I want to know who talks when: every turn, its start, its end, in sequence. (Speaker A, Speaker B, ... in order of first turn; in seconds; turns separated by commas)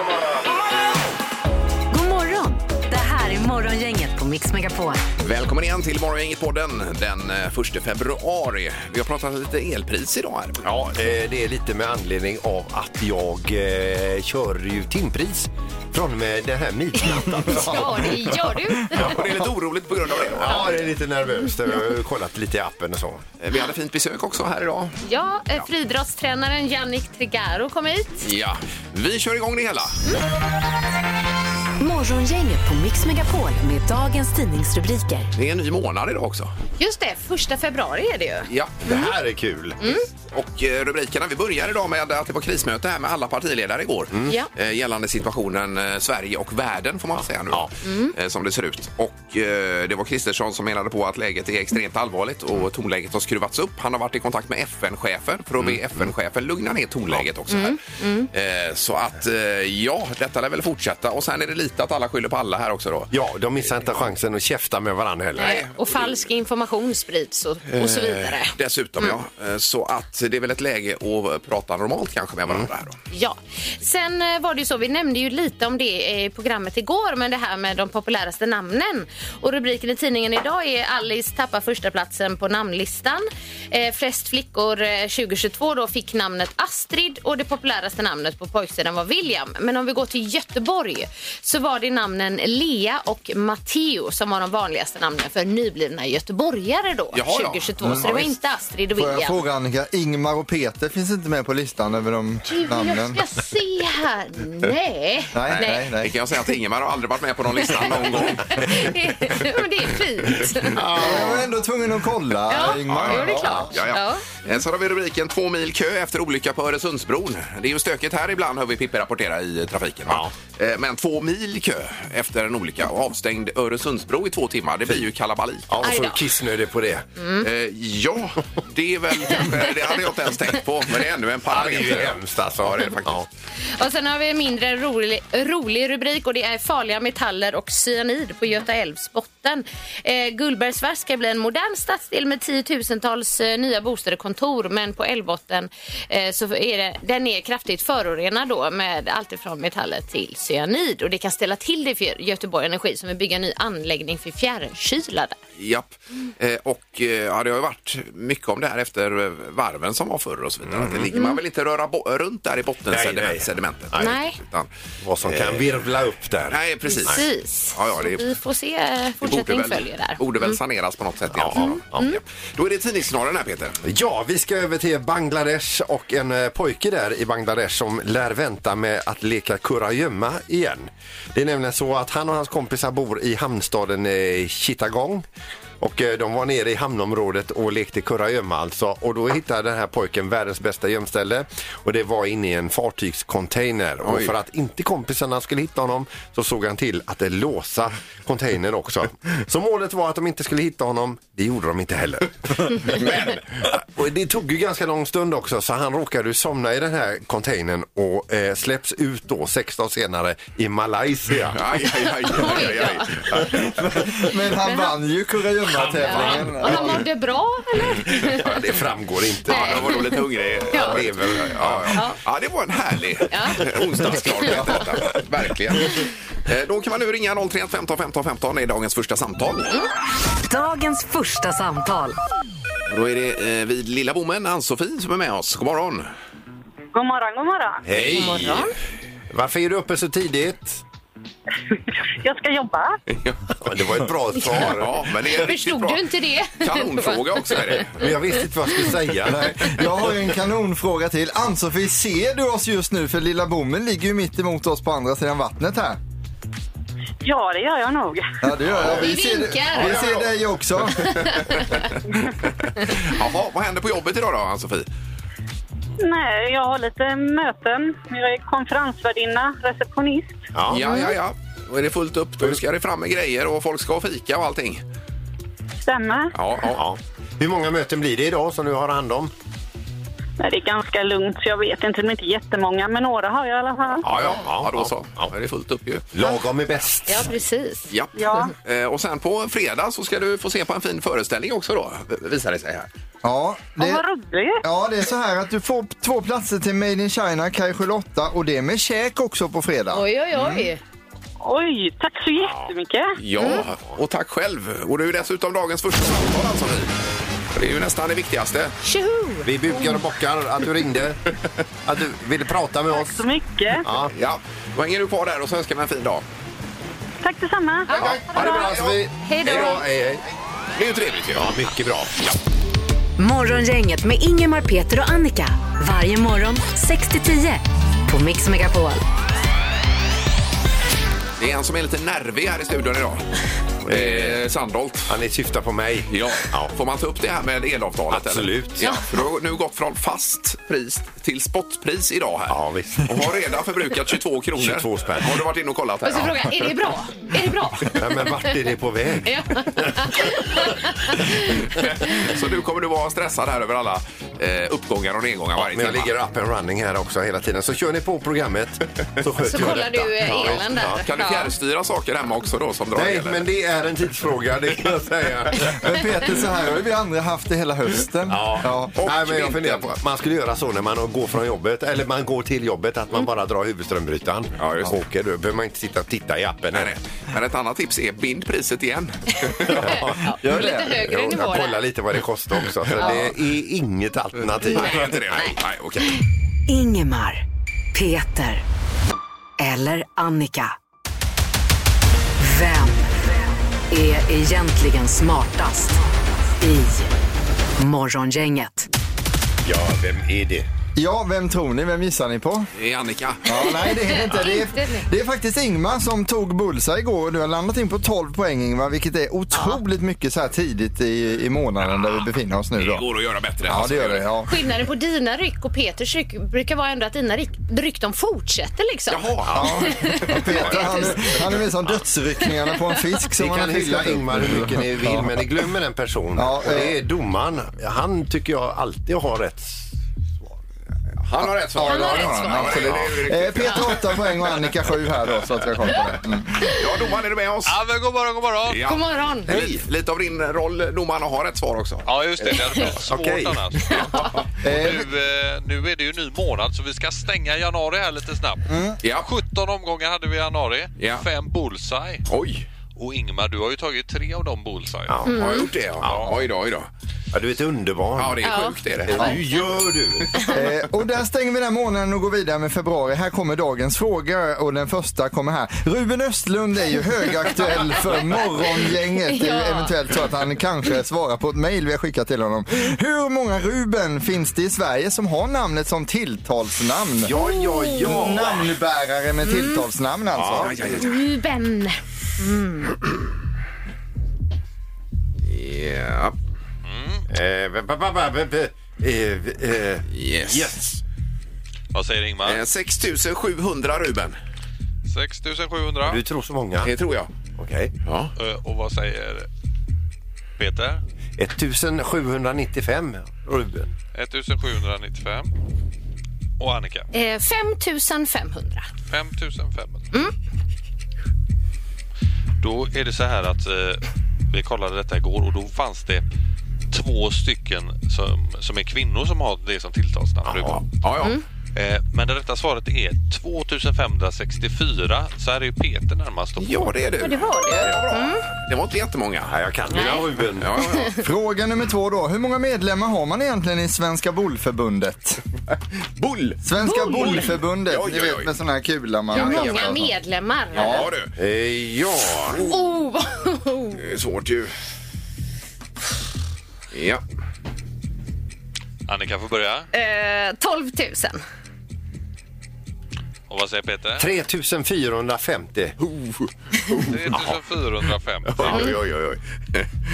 Speaker A: 1.9-5.0, Speaker B: 5.2-10.7, Speaker C: 10.6-19.3, Speaker D: 16.9-19.2, Speaker B: 18.9-20.9, Speaker C: 20.4-23.2, Speaker B: 23.4-25.0, Speaker D: 25.0-28.2, Speaker B: 28.2-30.0, Speaker A: 31.8-35.3, Speaker B: 35.3-36.5, Speaker D: 36.8-39.1, Speaker B: 38.5-38.8, Speaker C: 38.8-39.8, Speaker D: 39.8-40.0, Speaker B: 40.3-63.1, Speaker D: 47.8-48.1, Speaker C: 55.6-56.1, Speaker D: 57.5-58.3, Speaker C: 63.1-65.6, Speaker B: 65.4-66.3, Speaker D: 65.4-69.1, Speaker B: 67.7-73.0, Speaker D: 73.1-99.4, Speaker B: 97.1-98.3, Speaker E: 97.8-98.2, Speaker E: 99.0-103.2, Speaker D: 102.5-105.9, Speaker E: 105.3-106.1, Speaker B: 105.5-108.7, Speaker D: 107.6-110.9, Speaker C: 110.7-111.5, Speaker E: 110.9-113.7, Speaker D: 112.5-114.3, Speaker B: 112.9-125.7, Speaker C: 120.1-120.3, Speaker C: 125.7-127.0, Speaker D: 125.8-126.2, Speaker D: 127.2-127.5, Speaker B: 127.4-133.2, Speaker C: 131.5-133.3, Speaker D: 133.8-155.4, Speaker B: 155.6-164.7, Speaker C: 160.7-161.1, Speaker D: 161.1-161.4, Speaker C: 162.9-164.2, Speaker D: 164.0-164.4, Speaker C: 165.0-167.2, Speaker B: 165.2-165.7, Speaker B: 166.5-168.2, Speaker D: 166.9-170.6, Speaker B: 169.2-173.8, Speaker C: 171.3-172.1, Speaker D: 171.6-172.2, Speaker C: 173.8-185.3, Speaker C: 185.8-203.1, Speaker B: 194.0-194.3, Speaker B: 202.8-203.4, Speaker C: 203.7-211.8, Speaker B: 211.5-213.7, Speaker D: 212.2-213.8, Speaker E: 214.2-217.0, Speaker D: 214.6-214.9, Speaker D: 216.0-218.6, Speaker B: 218.2-218.7, Speaker C: 218.3-220.1, Speaker B: 219.5-229.8, Speaker D: 219.5-220.2, Speaker C: 220.7-222.0, Speaker D: 220.7-221.0, Speaker D: 223.3-223.7, Speaker C: 223.6-224.8, Speaker D: 224.4-224.7, Speaker A: 230.5-232.2, Speaker B: 232.9-236.1, Speaker F: 236.9-237.8, Speaker C: 237.8-238.7, Speaker B: 237.9-238.2, Speaker D: 238.1-238.7, Speaker C: 239.3-240.8, Speaker F: 242.1-243.0, Speaker B: 243.1-243.5, Speaker C: 243.6-245.1, Speaker B: 244.5-248.1, Speaker D: 245.4-247.8, Speaker C: 247.9-250.1, Speaker E: 249.3-256.0, Speaker F: 257.2-258.3, Speaker E: 258.4-261.6, Speaker D: 258.8-260.3, Speaker D: 261.1-261.8, Speaker B: 262.7-264.9, Speaker F: 266.0-270.5, Speaker C: 270.5-271.1, Speaker B: 270.7-274.8, Speaker D: 270.8-271.1, Speaker F: 275.8-276.3, Speaker B: 276.3-276.8, Speaker C: 276.7-279.3, Speaker F: 280.4-284.1, Speaker C: 284.0-285.3, Speaker B: 284.0-286.1, Speaker C: 286.1-287.3, Speaker D: 287.1-287.9, Speaker B: 287.9-292.9, Speaker F: 288.1-288.5, Speaker E: 293.2-294.0, Speaker F: 293.8-294.6, Speaker E: 294.6-300.7, Speaker D: 299.9-300.8, Speaker F: 301.4-303.2, Speaker C: 302.4-302.7, Speaker B: 303.2-307.0, Speaker D: 303.4-303.6, Speaker B: 307.5-308.8, Speaker D: 308.8-310.0, Speaker C: 309.4-311.2, Speaker C: 311.8-313.2, Speaker F: 312.9-313.9, Speaker C: 313.8-314.1, Speaker B: 314.1-316.2, Speaker F: 317.2-318.6, Speaker D: 317.9-318.2, Speaker B: 317.9-319.0, Speaker C: 317.9-320.2, Speaker D: 319.2-319.8, Speaker B: 320.8-321.5, Speaker C: 321.3-322.3, Speaker A: 323.2-329.0, Speaker B: 331.4-333.3, Speaker B: 333.8-335.1, Speaker C: 333.8-334.4, Speaker C: 335.1-336.7, Speaker B: 336.1-346.9, Speaker C: 338.1-338.9, Speaker C: 342.5-343.3, Speaker C: 344.6-345.4, Speaker D: 346.0-348.4, Speaker C: 347.9-350.2, Speaker D: 349.2-352.1, Speaker B: 351.8-356.1, Speaker C: 355.5-361.0, Speaker D: 359.4-361.5, Speaker B: 360.5-363.4, Speaker C: 362.9-365.9, Speaker E: 365.7-368.9, Speaker C: 368.3-376.9, Speaker B: 368.9-369.9, Speaker B: 374.6-374.9, Speaker B: 376.7-379.9, Speaker C: 379.7-385.5, Speaker D: 380.2-381.8, Speaker E: 380.4-380.9, Speaker D: 383.0-383.3, Speaker B: 384.6-386.2, Speaker A: 386.7-387.4, Speaker A: 387.9-388.6, Speaker A: 389.6-390.7, Speaker A: 392.4-393.4, Speaker A: 393.9-397.1, Speaker A: 397.8-398.9, Speaker C: 399.6-400.7, Speaker E: 400.9-402.7, Speaker B: 402.8-403.5, Speaker E: 403.4-413.1, Speaker D: 403.5-405.1, Speaker D: 409.5-409.8, Speaker B: 412.8-414.3, Speaker E: 413.6-414.5, Speaker D: 414.4-421.3, Speaker B: 419.1-421.3, Speaker E: 419.5-425.4, Speaker D: 422.4-423.0, Speaker C: 423.4-429.9, Speaker E: 426.4-426.9, Speaker B: 431.2-434.7, Speaker E: 431.4-436.7, Speaker D: 431.8-432.9, Speaker B: 436.7-437.8, Speaker G: 437.6-438.8, Speaker B: 438.7-442.9, Speaker D: 438.8-439.5, Speaker G: 442.1-452.2, Speaker D: 442.6-442.8, Speaker C: 443.1-443.8, Speaker D: 443.9-444.4, Speaker E: 444.6-445.1, Speaker E: 448.7-449.0, Speaker B: 449.0-449.3, Speaker B: 451.0-451.2, Speaker B: 452.3-452.6, Speaker G: 452.9-455.2, Speaker C: 455.1-455.4, Speaker B: 455.3-456.9, Speaker D: 455.3-455.7, Speaker C: 456.0-456.3, Speaker G: 456.1-456.3, Speaker C: 457.3-460.6, Speaker B: 458.1-459.3, Speaker D: 458.4-459.4, Speaker E: 460.5-477.3, Speaker D: 468.2-468.7, Speaker D: 469.2-470.0, Speaker C: 477.2-478.8, Speaker D: 477.3-478.2, Speaker E: 478.0-480.9, Speaker D: 479.4-479.9, Speaker C: 480.3-481.1, Speaker B: 480.6-481.2, Speaker D: 481.0-482.9, Speaker B: 485.4-486.4, Speaker G: 486.8-487.2, Speaker C: 487.3-491.0, Speaker B: 490.1-490.8, Speaker G: 491.9-492.6, Speaker B: 492.4-494.4, Speaker G: 495.1-496.2, Speaker C: 496.0-496.9, Speaker B: 496.8-497.3, Speaker C: 497.6-497.9, Speaker B: 498.0-498.3, Speaker G: 498.4-499.5, Speaker G: 500.6-501.0, Speaker C: 501.4-503.9, Speaker G: 504.1-505.5, Speaker G: 506.6-507.1, Speaker D: 507.1-508.9, Speaker G: 509.1-510.0, Speaker G: 512.6-516.2, Speaker G: 516.9-520.8, Speaker C: 520.4-520.8, Speaker B: 520.8-521.4, Speaker G: 521.7-527.0, Speaker B: 526.6-529.5, Speaker D: 527.2-528.5, Speaker C: 527.8-528.1, Speaker C: 529.4-530.8, Speaker D: 529.9-530.3, Speaker B: 530.6-531.2, Speaker D: 530.8-531.2, Speaker E: 531.2-535.4, Speaker B: 536.1-536.6, Speaker E: 536.6-540.1, Speaker D: 536.8-537.6, Speaker B: 537.1-538.5, Speaker B: 539.3-540.0, Speaker D: 539.3-541.1, Speaker B: 540.7-541.3, Speaker E: 540.7-541.1, Speaker C: 541.4-542.7, Speaker B: 542.3-542.7, Speaker D: 542.6-544.0, Speaker B: 543.9-544.7, Speaker B: 546.9-547.2, Speaker G: 549.1-549.9, Speaker D: 549.9-551.4, Speaker G: 553.5-554.3, Speaker C: 554.2-556.0, Speaker B: 556.0-557.3, Speaker G: 557.1-558.9, Speaker C: 557.3-557.6, Speaker B: 558.5-559.9